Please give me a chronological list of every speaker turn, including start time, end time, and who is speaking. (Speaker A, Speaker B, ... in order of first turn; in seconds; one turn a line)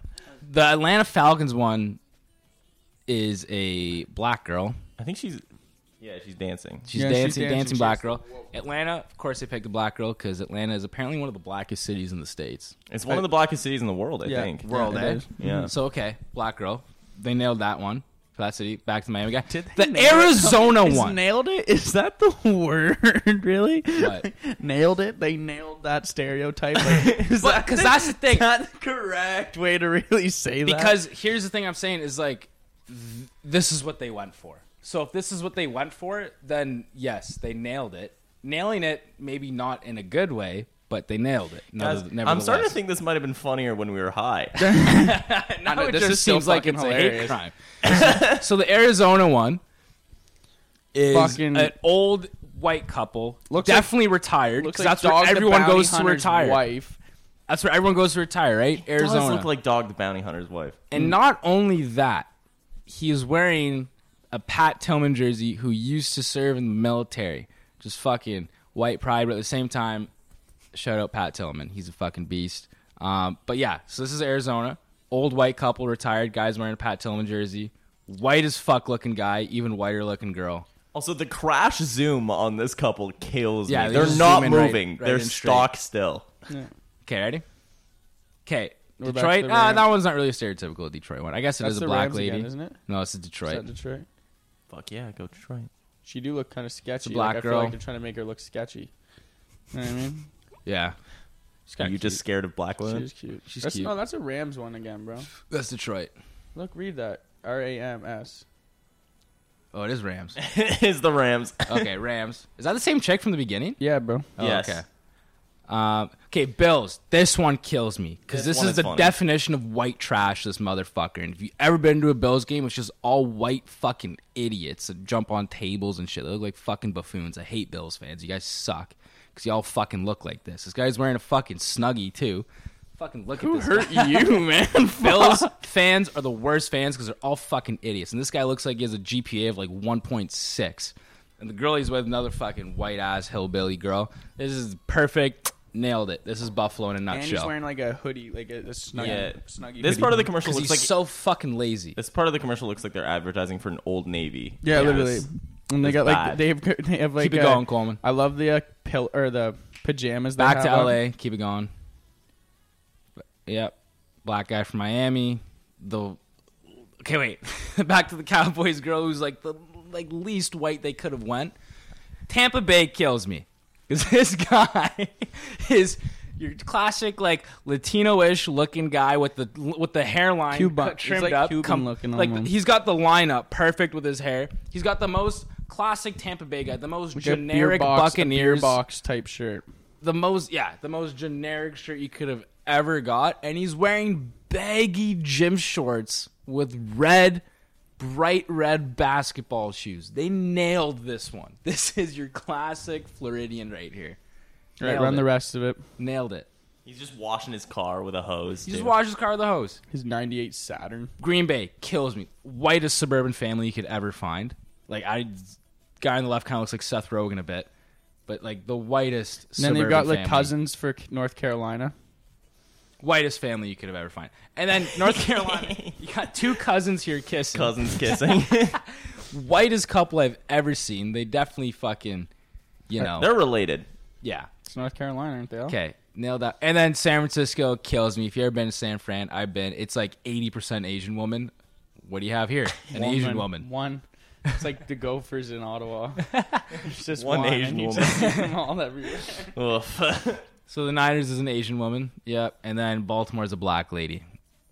Speaker A: 0.4-2.0
Speaker A: 3.1-4.8
Speaker B: 5.0-5.4
Speaker B: 6.0-6.9
Speaker A: 6.9-12.8
Speaker C: 6.9-8.4
Speaker B: 12.9-14.7
Speaker C: 14.2-15.7
Speaker A: 14.7-21.2
Speaker B: 15.4-15.7
Speaker C: 19.5-31.0
Speaker A: 24.0-24.3
Speaker A: 27.0-28.5
Speaker A: 30.6-42.8
Speaker B: 41.8-44.7
Speaker C: 44.6-47.4
Speaker A: 44.8-49.6
Speaker B: 47.8-48.4
Speaker A: 50.9-56.6
Speaker C: 51.1-51.7
Speaker C: 53.5-53.9
Speaker C: 54.6-57.0
Speaker A: 57.5-59.5
Speaker B: 58.8-60.8
Speaker A: 60.9-62.3
Speaker A: 62.9-70.1
Speaker A: 70.7-80.7
Speaker B: 80.9-86.3
Speaker A: 83.7-85.7
Speaker A: 87.0-87.4
Speaker A: 88.5-93.7
Speaker C: 89.0-89.9
Speaker C: 91.6-92.8
Speaker C: 93.5-94.1
Speaker B: 94.7-95.7
Speaker C: 96.0-98.9
Speaker A: 97.0-97.8
Speaker C: 99.7-100.3
Speaker A: 100.7-101.0
Speaker A: 101.7-102.2
Speaker B: 101.8-103.1
Speaker C: 102.8-105.3
Speaker A: 103.5-103.9
Speaker A: 105.5-106.1
Speaker C: 106.5-108.5
Speaker A: 109.7-110.4
Speaker B: 110.4-111.9
Speaker A: 111.7-113.8
Speaker C: 113.8-114.3
Speaker A: 114.4-114.8
Speaker B: 114.4-114.8
Speaker A: 115.7-134.4
Speaker B: 118.3-119.2
Speaker C: 133.4-135.5
Speaker A: 135.0-147.5
Speaker C: 147.1-150.3
Speaker B: 149.0-150.9
Speaker A: 150.4-152.0
Speaker B: 152.0-155.3
Speaker C: 154.6-161.0
Speaker B: 155.8-156.4
Speaker A: 157.2-158.0
Speaker A: 160.4-161.7
Speaker A: 163.5-171.5
Speaker A: 172.3-188.8
Speaker C: 180.5-182.5
Speaker C: 187.2-189.7
Speaker A: 190.0-197.4
Speaker A: 198.0-204.2
Speaker C: 204.8-205.8
Speaker A: 204.8-205.3
Speaker A: 206.0-206.5
Speaker B: 206.8-208.9
Speaker A: 208.7-209.8
Speaker C: 209.9-211.1
Speaker A: 211.2-217.7
Speaker A: 218.3-220.5
Speaker C: 219.6-221.9
Speaker A: 223.0-232.3
Speaker B: 224.9-226.0
Speaker B: 227.5-228.8
Speaker A: 232.9-233.3
Speaker B: 233.2-233.9
Speaker A: 234.2-234.5
Speaker C: 234.6-235.8
Speaker A: 235.7-241.5
Speaker A: 242.0-243.7
Speaker C: 242.9-249.5
Speaker A: 246.3-246.6
Speaker B: 247.2-248.5
Speaker A: 248.1-248.5
Speaker B: 249.5-250.5
Speaker A: 250.7-254.2